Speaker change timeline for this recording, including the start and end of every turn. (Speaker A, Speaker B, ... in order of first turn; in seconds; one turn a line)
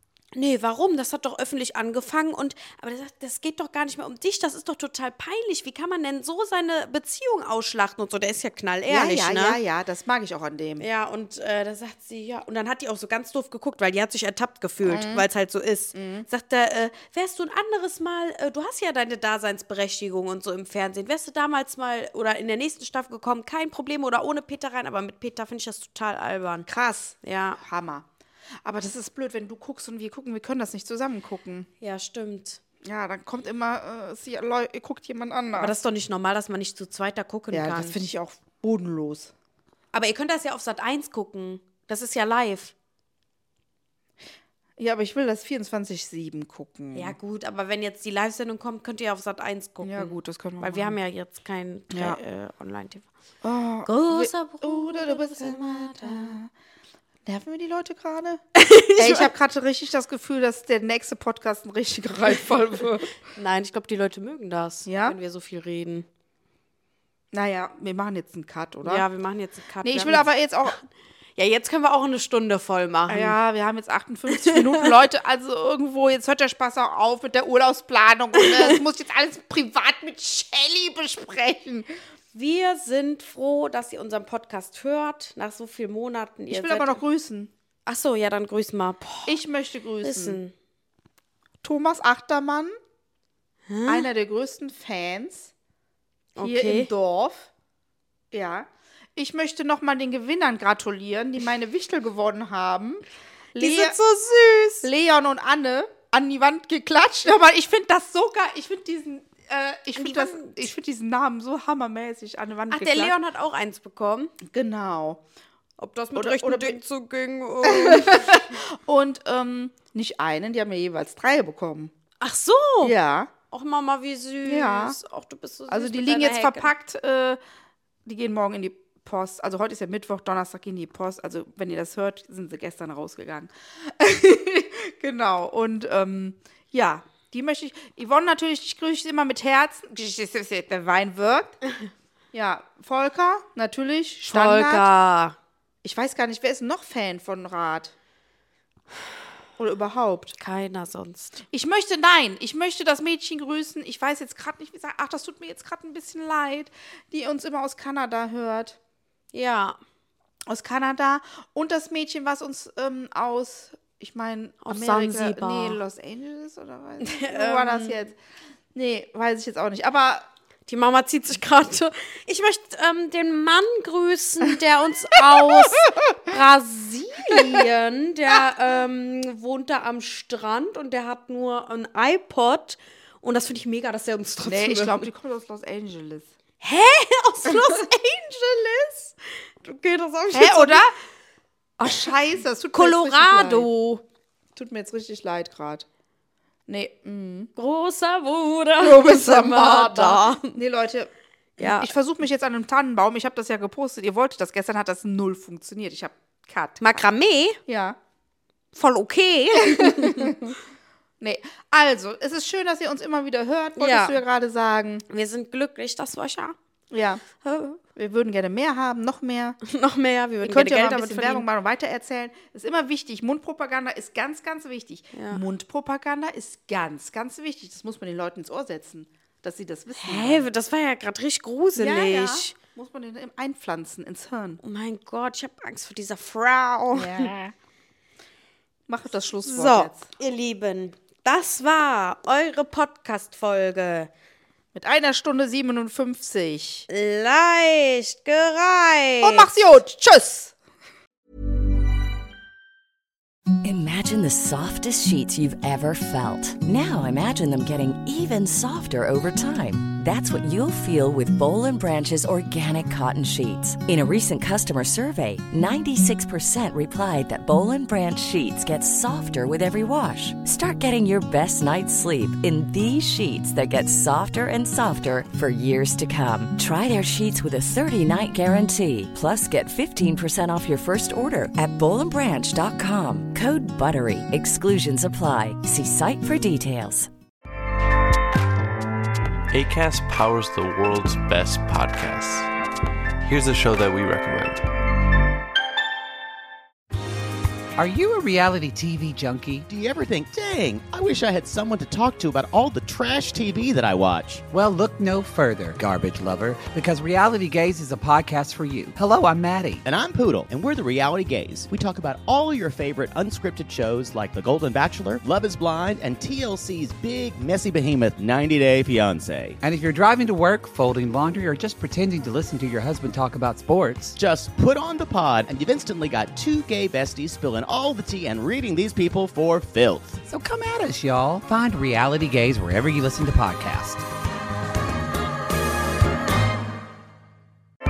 Speaker A: 0.3-9.6
Speaker B: 8.9-10.8
Speaker A: 10.8-26.6
Speaker B: 14.8-15.2
Speaker B: 15.9-16.3
Speaker B: 26.7-28.1
Speaker A: 27.2-27.6
Speaker B: 28.6-31.7
Speaker A: 31.8-32.6
Speaker B: 32.8-35.8
Speaker A: 35.5-38.0
Speaker B: 37.5-39.3
Speaker A: 39.9-42.7
Speaker B: 44.8-47.1
Speaker A: 46.9-53.1
Speaker B: 49.8-51.0
Speaker B: 51.9-52.2
Speaker B: 53.4-56.5
Speaker A: 53.8-56.4
Speaker B: 57.2-58.4
Speaker A: 58.5-59.3
Speaker B: 59.0-63.1
Speaker A: 63.3-66.0
Speaker B: 64.8-65.2
Speaker B: 67.3-69.0
Speaker A: 68.8-70.7
Speaker B: 69.8-70.8
Speaker A: 71.4-73.3
Speaker B: 73.1-81.9
Speaker A: 74.3-74.9
Speaker A: 78.4-78.8
Speaker A: 82.3-87.0
Speaker B: 86.5-87.5
Speaker A: 87.8-89.4
Speaker B: 89.2-90.4
Speaker A: 90.0-90.5
Speaker B: 91.6-92.8
Speaker A: 93.7-94.1
Speaker B: 93.8-95.5
Speaker A: 96.3-96.9
Speaker B: 96.4-97.5
Speaker B: 98.3-103.0
Speaker B: 103.5-104.0
Speaker A: 103.5-104.9
Speaker B: 104.8-113.2
Speaker A: 110.0-110.7
Speaker A: 112.7-114.3
Speaker B: 114.4-115.2
Speaker A: 115.8-118.5
Speaker B: 116.1-116.8
Speaker B: 117.6-121.9
Speaker A: 122.2-122.9
Speaker B: 122.8-123.3
Speaker A: 123.5-126.7
Speaker B: 124.4-125.0
Speaker B: 125.7-127.4
Speaker B: 128.1-141.6
Speaker B: 142.3-144.9
Speaker A: 144.3-145.3
Speaker B: 145.8-147.9
Speaker B: 149.6-150.3
Speaker A: 150.4-151.4
Speaker B: 151.5-158.8
Speaker A: 159.3-159.8
Speaker B: 160.5-168.2
Speaker A: 164.6-165.8
Speaker A: 167.0-167.9
Speaker B: 168.7-170.3
Speaker A: 170.7-185.1
Speaker B: 175.4-175.9
Speaker B: 177.3-177.6
Speaker B: 184.4-186.3
Speaker A: 186.6-190.8
Speaker B: 190.3-190.9
Speaker B: 191.8-193.7
Speaker A: 192.7-194.0
Speaker B: 194.5-195.8
Speaker B: 196.7-197.5
Speaker A: 197.6-200.6
Speaker B: 198.8-207.0
Speaker A: 201.6-201.9
Speaker A: 206.8-207.6
Speaker B: 207.7-208.0
Speaker A: 208.7-210.3
Speaker B: 209.6-210.6
Speaker B: 211.2-215.0
Speaker A: 213.8-214.2
Speaker A: 215.1-216.6
Speaker B: 216.9-219.6
Speaker A: 219.6-221.4
Speaker B: 220.4-230.4
Speaker A: 225.1-225.4
Speaker A: 229.9-232.5
Speaker B: 231.8-234.6
Speaker A: 234.6-237.3
Speaker B: 236.9-237.5
Speaker B: 238.9-240.1
Speaker A: 239.4-244.1
Speaker B: 244.7-246.9
Speaker A: 246.9-249.5
Speaker B: 249.2-250.5
Speaker C: 253.6-287.1
Speaker D: 289.5-292.5
Speaker D: 293.2-294.6
Speaker E: 297.8-299.6
Speaker F: 299.7-304.4
Speaker E: 304.5-309.8
Speaker F: 309.8-319.6
Speaker E: 319.6-324.1
Speaker F: 324.1-330.2
Speaker E: 330.2-334.0